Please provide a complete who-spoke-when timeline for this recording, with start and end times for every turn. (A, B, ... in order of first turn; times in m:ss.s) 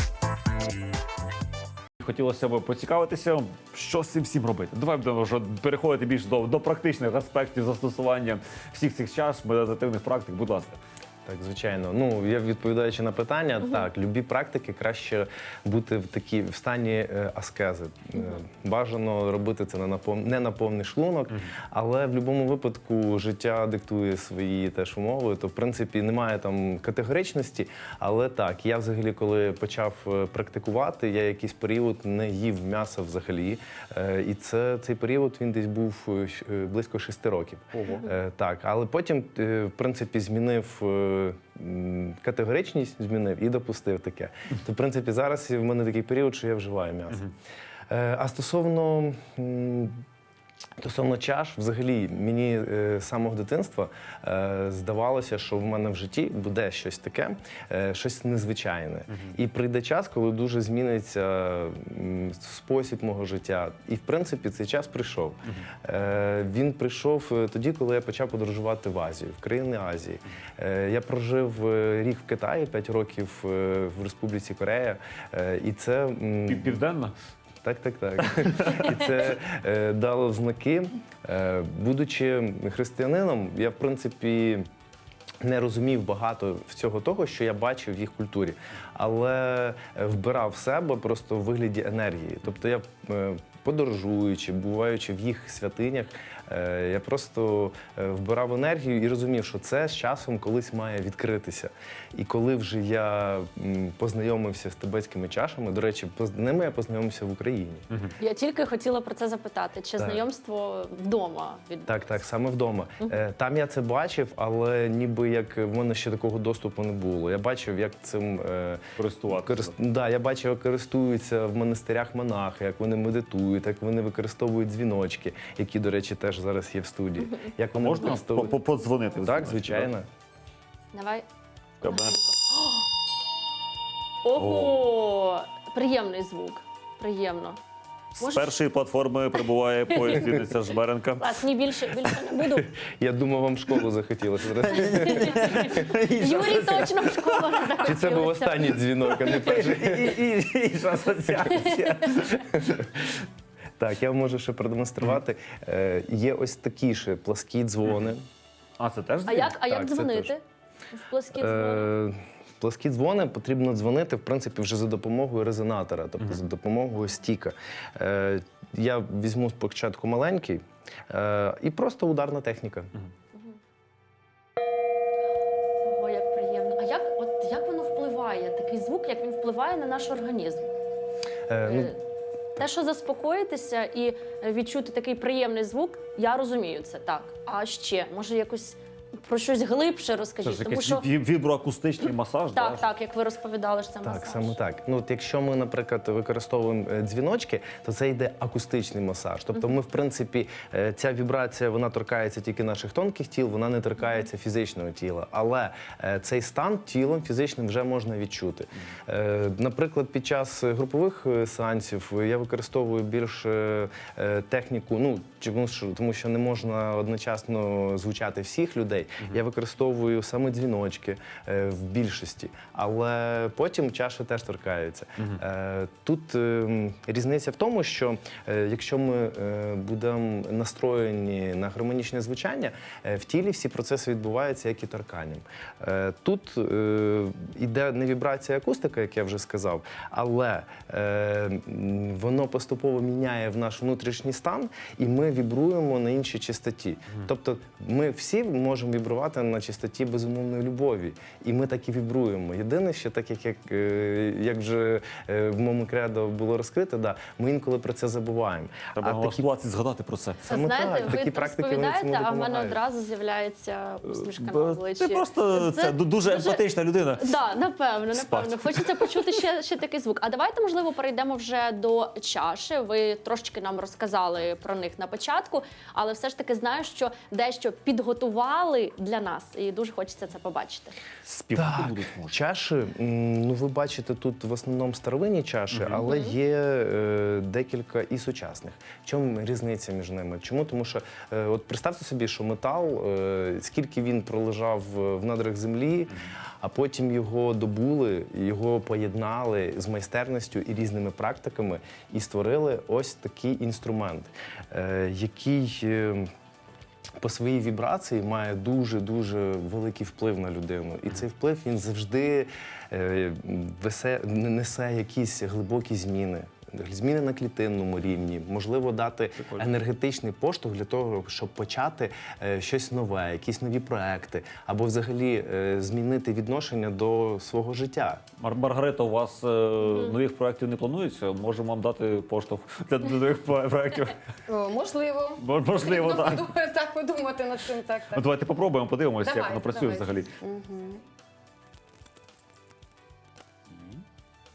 0:02.0-0:10.8 A
0:11.3-0:47.3 B
0:37.8-0:38.1 A
0:47.9-0:50.0 B
0:50.8-1:16.8 B
0:59.1-0:59.3 A
1:16.5-1:17.1 A
1:17.6-1:24.6 B
1:25.4-1:47.8 B
1:48.2-1:52.1 C
1:50.0-1:50.2 B
1:51.8-2:08.6 B
1:59.0-1:59.7 A
2:07.8-2:09.9 A
2:09.2-2:10.1 B
2:10.9-2:11.2 C
2:11.8-2:12.1 A
2:11.8-2:12.8 C
2:14.2-2:17.6 C
2:14.3-2:14.8 A
2:18.2-2:22.2 A
2:18.2-2:18.6 C
2:21.2-2:22.7 C
2:22.7-2:25.8 B
2:24.7-2:27.7 A
2:25.6-2:28.8 C
2:27.8-2:30.2 B
2:29.2-2:32.4 A
2:31.4-2:33.0 B
2:33.8-2:38.2 B
2:38.8-2:39.5 A
2:39.2-2:40.4 C
2:39.4-2:40.3 B
2:40.9-2:41.9 C
2:41.3-2:52.9 B
2:55.8-3:00.7 C
3:01.5-3:01.9 B
3:01.6-3:02.0 C
3:02.6-3:11.1 C
3:10.4-3:12.9 A
3:12.5-3:14.6 C
3:14.0-4:19.4 B
4:19.0-4:20.5 A
4:20.4-4:26.6 C
4:20.5-4:22.8 B
4:24.0-4:27.4 A
4:27.2-4:40.9 C
4:28.1-4:29.3 A
4:41.2-4:42.4 A
4:41.5-5:06.3 B
4:45.7-4:46.0 A
5:07.2-5:28.2 B
5:19.4-5:19.7 A
5:28.4-5:34.2 A
5:34.5-5:38.3 D
5:35.4-5:36.6 A
5:38.0-5:40.3 A
5:39.2-5:41.0 D